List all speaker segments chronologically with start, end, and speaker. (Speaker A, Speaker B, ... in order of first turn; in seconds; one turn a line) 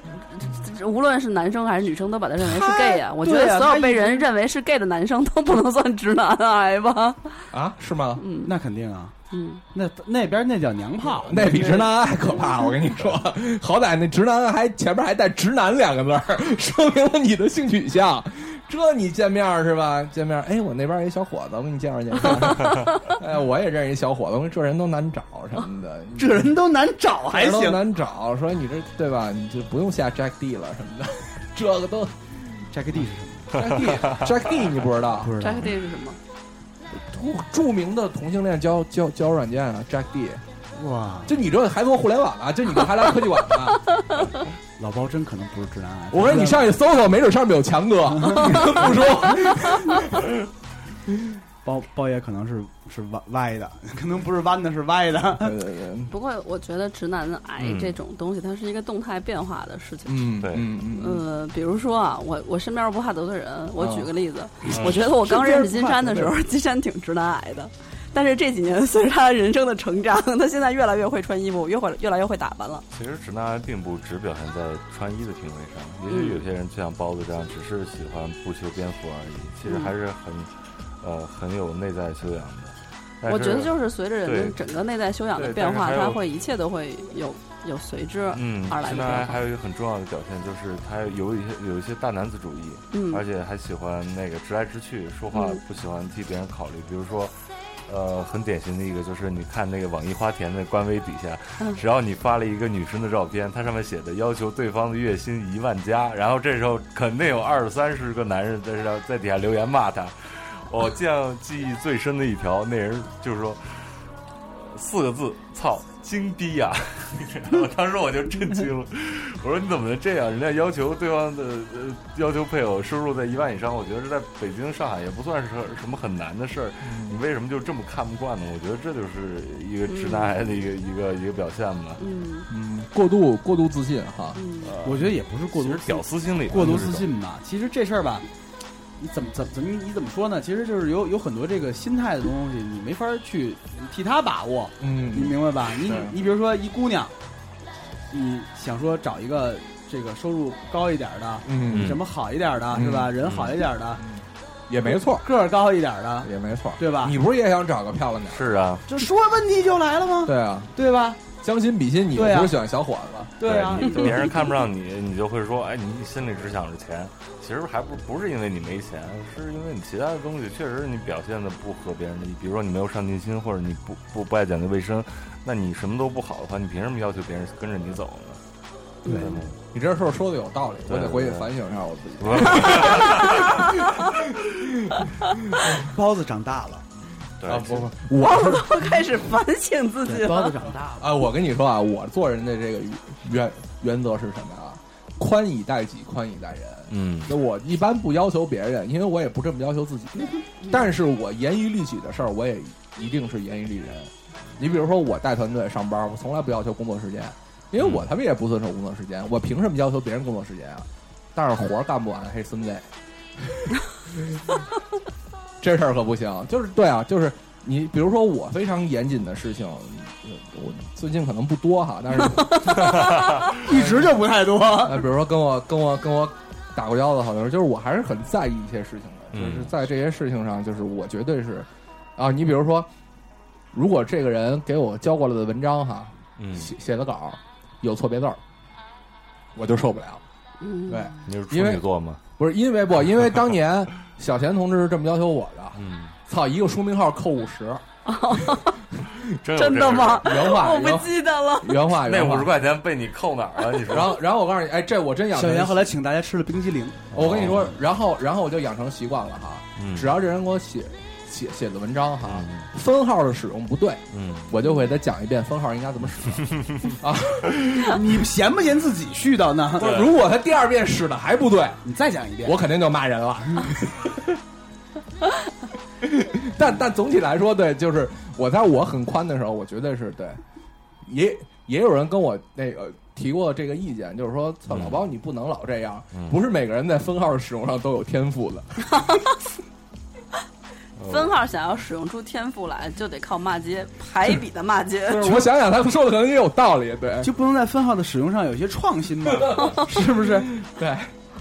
Speaker A: 0.1-7.3
Speaker B: 2.4-4.2
Speaker C: 7.5-8.2
Speaker A: 8.2-8.5
Speaker B: 8.4-9.1
Speaker A: 9.3-9.6
Speaker B: 9.7-12.1
Speaker C: 11.1-26.5
Speaker B: 26.1-27.8
Speaker C: 27.3-32.7
Speaker B: 32.7-33.6
Speaker C: 33.5-35.4
Speaker D: 33.7-34.3
Speaker B: 35.2-35.7
Speaker A: 35.4-36.2
Speaker C: 36.9-40.4
Speaker B: 40.8-41.4
Speaker C: 41.2-43.8
Speaker B: 44.8-46.7
Speaker C: 46.1-50.3
Speaker B: 48.2-49.0
Speaker B: 51.6-55.6
Speaker C: 55.4-56.1
Speaker A: 56.1-60.3
Speaker D: 57.6-58.0
Speaker C: 60.0-61.2
Speaker D: 60.4-60.7
Speaker A: 60.9-72.8
Speaker C: 63.8-64.1
Speaker D: 64.7-65.0
Speaker B: 64.8-66.3
Speaker D: 72.9-84.6
Speaker A: 76.1-76.4
Speaker A: 79.6-79.9
Speaker A: 83.2-89.4
Speaker D: 85.3-86.2
Speaker D: 88.3-132.0
Speaker A: 92.9-93.2
Speaker A: 95.3-95.6
Speaker C: 126.8-127.2
Speaker A: 129.9-130.3
Speaker A: 132.0-132.5
Speaker C: 132.5-134.4
Speaker A: 134.3-134.7
Speaker D: 134.6-137.1
Speaker B: 134.8-138.3
Speaker B: 139.0-147.1
Speaker C: 144.8-146.2
Speaker B: 148.1-154.0
Speaker C: 151.4-152.0
Speaker D: 151.7-152.0
Speaker C: 152.7-153.2
Speaker D: 153.2-153.6
Speaker C: 153.9-155.3
Speaker B: 154.8-157.1
Speaker C: 156.2-158.6
Speaker D: 158.3-158.8
Speaker B: 158.9-161.2
Speaker C: 160.2-160.8
Speaker C: 161.4-163.5
Speaker B: 162.1-162.6
Speaker B: 163.4-164.6
Speaker D: 163.4-178.4
Speaker A: 179.0-179.3
Speaker B: 179.1-179.3
Speaker D: 179.1-179.6
Speaker C: 179.7-185.8
Speaker D: 180.9-181.6
Speaker D: 182.2-183.6
Speaker B: 185.7-186.9
Speaker D: 187.4-187.9
Speaker C: 187.4-188.9
Speaker A: 188.2-190.6
Speaker B: 190.0-191.2
Speaker C: 191.0-212.9
Speaker D: 196.9-197.3
Speaker D: 207.8-208.1
Speaker C: 213.4-214.4
Speaker C: 215.6-224.2
Speaker B: 223.6-225.0
Speaker C: 224.8-232.9
Speaker D: 229.3-229.7
Speaker C: 233.7-238.4
Speaker D: 236.4-236.7
Speaker C: 239.5-240.2
Speaker A: 240.6-241.1
Speaker C: 240.9-241.8
Speaker D: 241.2-242.2
Speaker C: 242.4-249.2
Speaker D: 245.8-246.1
Speaker A: 248.1-248.8
Speaker D: 249.4-250.5
Speaker A: 249.5-251.8
Speaker C: 250.2-252.5
Speaker D: 251.9-254.2
Speaker C: 253.8-255.9
Speaker B: 255.3-257.1
Speaker D: 257.1-257.7
Speaker C: 257.1-268.2
Speaker D: 259.8-260.1
Speaker D: 262.2-262.7
Speaker D: 264.1-264.6
Speaker D: 266.4-266.8
Speaker B: 267.9-269.9
Speaker C: 269.8-271.9
Speaker D: 269.8-270.1
Speaker B: 271.8-272.6
Speaker C: 272.4-274.4
Speaker C: 276.0-280.4
Speaker C: 281.0-289.2
Speaker D: 284.7-285.0
Speaker D: 286.1-286.4
Speaker D: 291.0-291.3
Speaker A: 291.1-295.3
Speaker C: 295.1-297.3
Speaker B: 297.2-300.5
Speaker C: 299.3-301.1